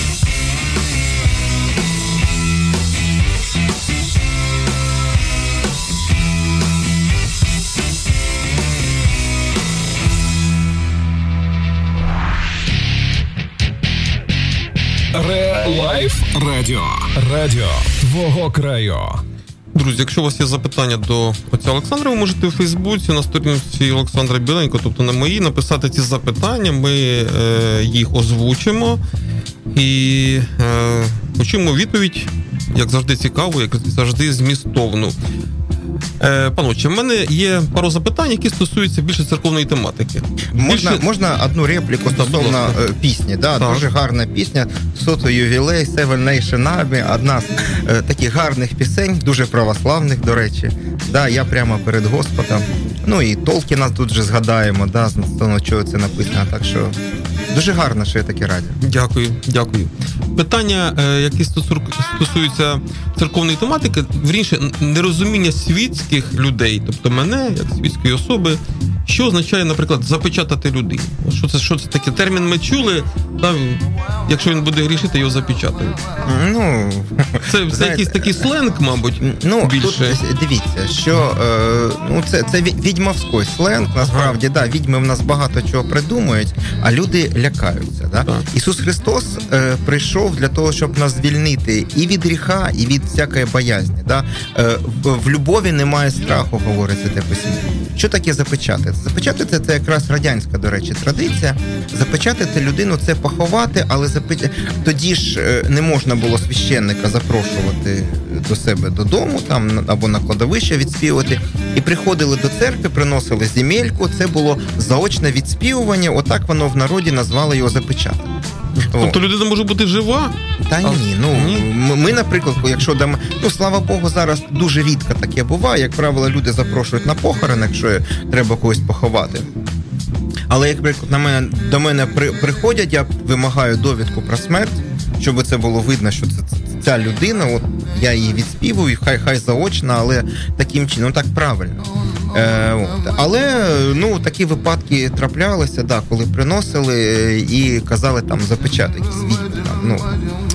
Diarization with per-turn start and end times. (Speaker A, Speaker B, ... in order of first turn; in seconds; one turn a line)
Speaker A: 15.1-19.2
Speaker B: 19.8-29.0
Speaker B: 29.7-35.2
Speaker B: 36.2-41.1
Speaker C: 40.5-57.0
Speaker B: 42.1-42.9
Speaker B: 43.6-43.9
Speaker C: 57.5-58.8
Speaker B: 58.8-76.0
Speaker C: 76.3-78.5
Speaker B: 77.4-80.2
Speaker C: 79.2-118.3
Speaker B: 84.0-84.4
Speaker B: 118.8-121.7
Speaker C: 118.9-119.2
Speaker C: 120.6-129.5
Speaker C: 130.5-150.1